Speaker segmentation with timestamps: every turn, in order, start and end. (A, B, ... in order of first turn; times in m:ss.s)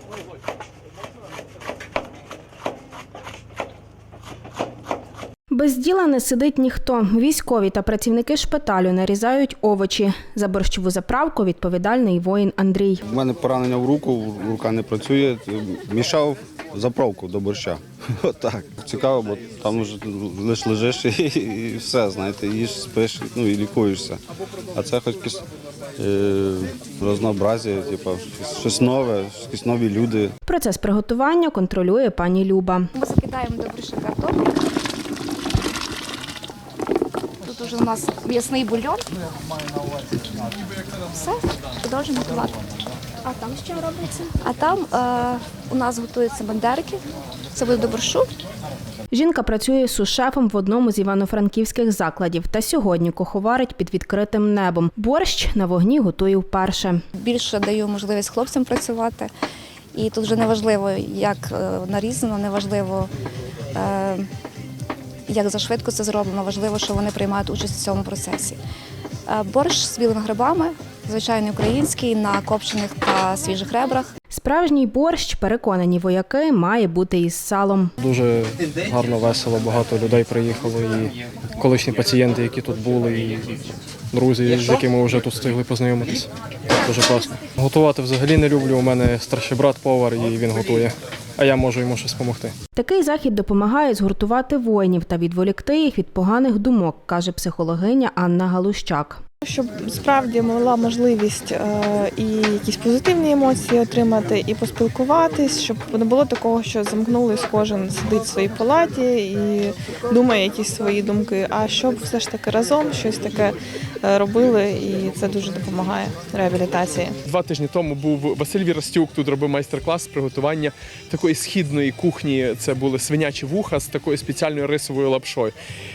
0:05.5-0:13.0 A
0:13.1-0:24.2 B
0:24.7-0:25.4 B
0:26.0-0:30.3 B
0:30.4-0:32.9 A
0:32.9-0:34.5 C
0:37.4-0:39.1 C
0:41.1-0:42.6 C
0:44.4-0:47.0 C
0:47.5-0:48.3 C
0:49.1-0:57.0 A
0:57.1-0:59.3 C
0:59.9-1:03.1 C
1:03.8-1:04.3 C
1:05.3-1:08.6 C
1:09.3-1:14.1 C
1:14.3-1:17.9 A
1:18.0-1:23.6 D
1:24.1-1:32.6 D
1:32.7-1:39.2 A
1:39.4-1:57.1 E
1:57.2-2:05.5 F